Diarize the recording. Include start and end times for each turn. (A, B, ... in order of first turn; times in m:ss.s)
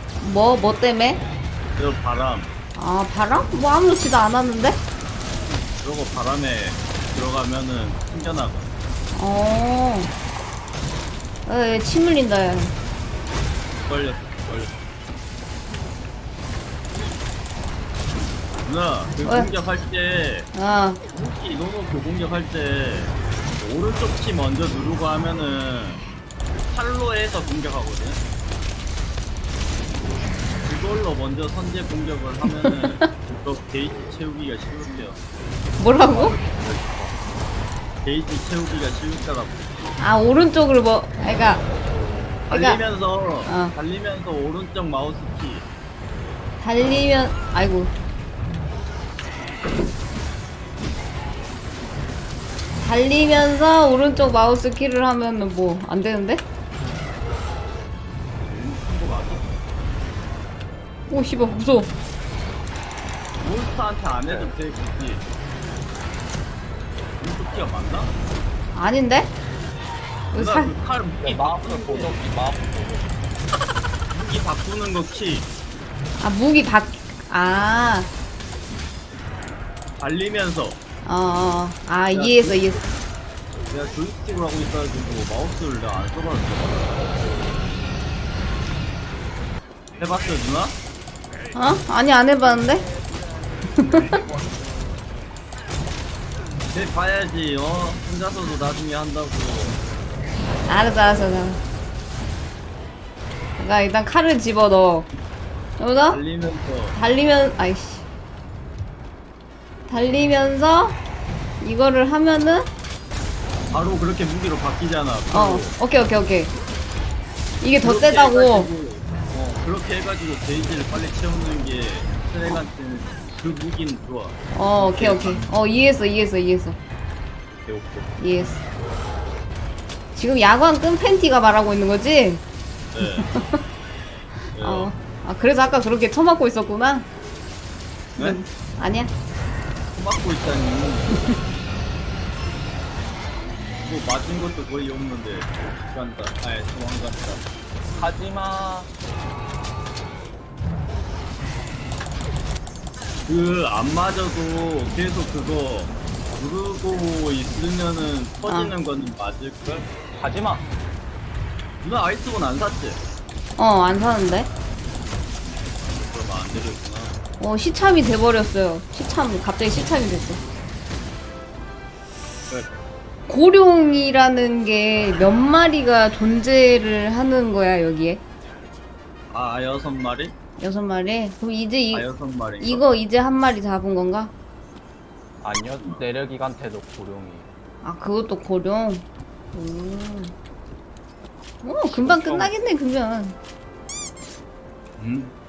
0:00.2-0:01.2 A
0:01.8-0:02.5 B
0:02.8-0:04.8 A
0:05.8-0:08.7 B
0:09.1-0:10.1 A
0:11.5-0:12.8 A
0:13.8-0:14.8 B
0:18.6-0:20.5 B
0:19.2-0:19.5 A
0:20.5-0:21.0 A
0:21.1-0:26.0 B
0:26.6-0:28.2 B
0:30.6-0:35.2 B
0:32.5-0:33.1 A
0:35.8-0:36.4 A
0:36.1-0:37.1 C
0:36.1-0:36.9 B
0:38.0-0:39.8 B
0:40.0-0:41.6 A
0:42.5-0:42.8 A
0:42.5-0:45.7 B
0:43.5-0:43.7 A
0:46.6-0:47.9 A
0:52.8-0:56.4 A
0:58.4-0:59.6 B
1:01.1-1:01.9 A
1:03.4-1:05.2 B
1:04.2-1:04.5 C
1:07.2-1:08.1 B
1:07.4-1:07.9 C
1:08.7-1:09.3 A
1:10.3-1:10.8 A
1:10.3-1:12.2 B
1:11.2-1:13.3 C
1:14.1-1:15.5 B
1:16.2-1:18.1 A
1:20.0-1:20.8 B
1:21.0-1:22.8 A
1:22.1-1:22.9 B
1:23.7-1:27.1 B
1:30.0-1:30.8 B
1:31.5-1:32.9 A
1:33.8-1:34.1 A
1:36.7-1:39.8 B
1:40.7-1:41.6 A
1:43.6-1:45.1 A
1:45.8-1:46.2 A
1:46.1-1:47.0 B
1:46.9-1:48.1 A
1:49.9-1:51.0 A
1:51.6-1:52.7 A
1:53.7-1:55.7 B
1:55.3-1:56.5 A
1:57.6-1:58.7 A
1:57.8-2:05.5 B
2:04.5-2:06.8 A
2:07.7-2:08.1 B
2:08.2-2:08.6 A
2:10.2-2:12.4 A
2:12.9-2:13.3 B
2:13.0-2:13.6 A
2:14.5-2:14.9 B
2:14.6-2:17.1 A
2:18.2-2:18.4 B
2:18.2-2:19.1 A
2:19.9-2:21.3 B
2:23.8-2:27.5 B
2:28.0-2:28.9 C
2:33.3-2:39.9 B
2:38.4-2:38.8 A
2:40.1-2:40.7 C
2:41.8-2:43.0 B
2:43.6-2:44.5 A
2:45.8-2:47.2 B
2:47.4-2:50.4 A
2:52.5-2:52.8 B
2:53.3-2:58.2 A
2:59.3-3:00.4 B
3:00.6-3:02.1 A
3:01.9-3:02.8 B
3:02.6-3:04.3 A
3:05.4-3:07.5 C
3:07.8-3:10.4 A
3:11.6-3:13.4 A
3:11.8-3:12.5 C
3:15.0-3:15.3 B